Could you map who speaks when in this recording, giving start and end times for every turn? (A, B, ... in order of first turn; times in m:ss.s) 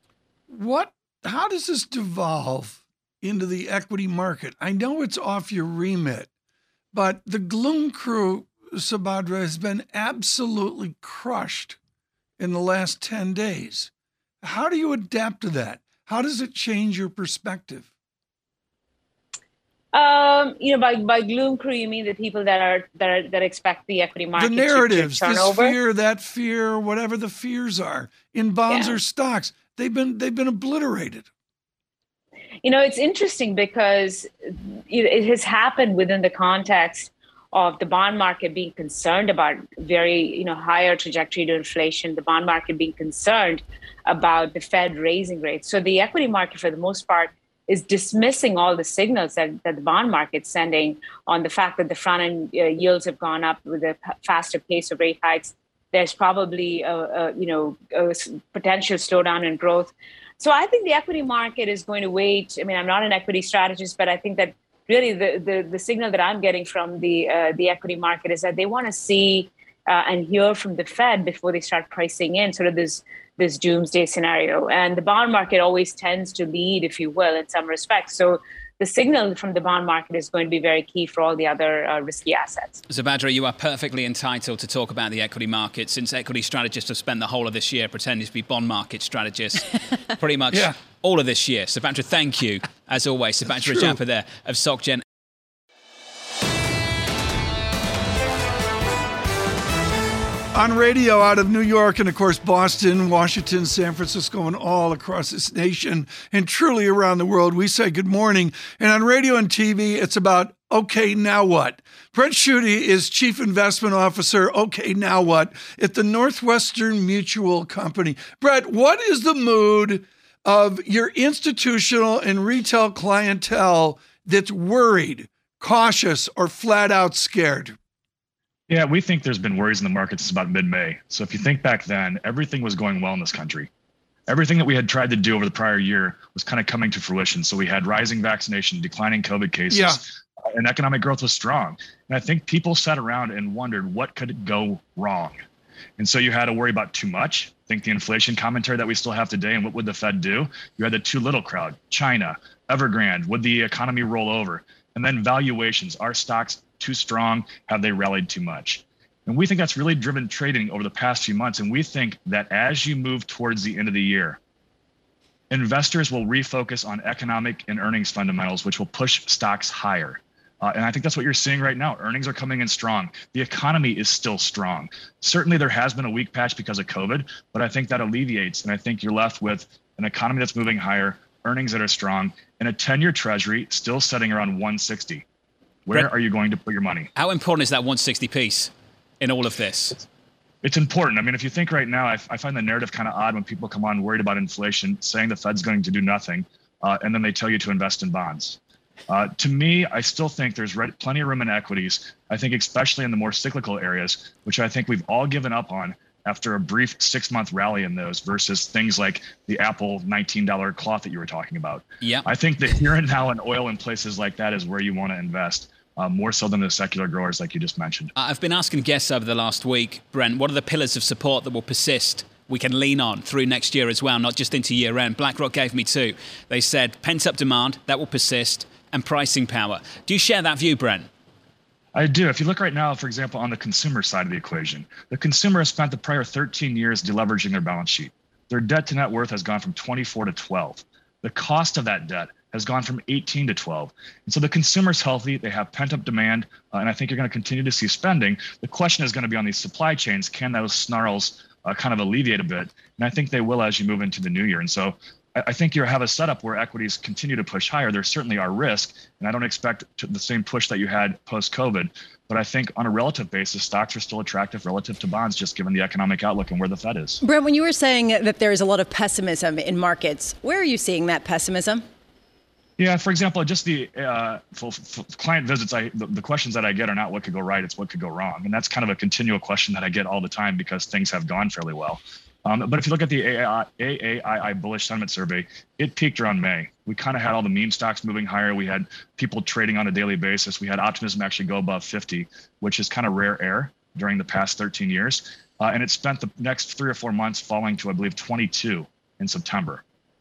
0:00.5-0:06.3 A
0:06.9-0:11.8 A
0:12.4-0:13.9 A
0:14.4-0:17.9 A
0:19.9-0:25.8 B
0:24.4-0:31.3 A
0:28.7-0:29.0 B
0:32.6-1:22.8 B
1:22.9-1:29.7 C
1:30.2-1:35.0 C
1:33.5-1:34.0 A
1:40.5-2:07.8 A
2:08.7-2:13.7 D
2:14.3-2:25.4 D
2:19.7-2:20.0 A
2:26.0-2:44.4 D
2:45.5-3:05.2 D
3:05.9-3:07.1 D
3:07.2-3:10.0 C
3:10.6-3:38.1 D
3:32.0-3:32.3 C
3:38.2-3:51.1 C
3:51.9-4:27.2 D
4:27.2-4:31.8 E
4:32.8-4:59.8 D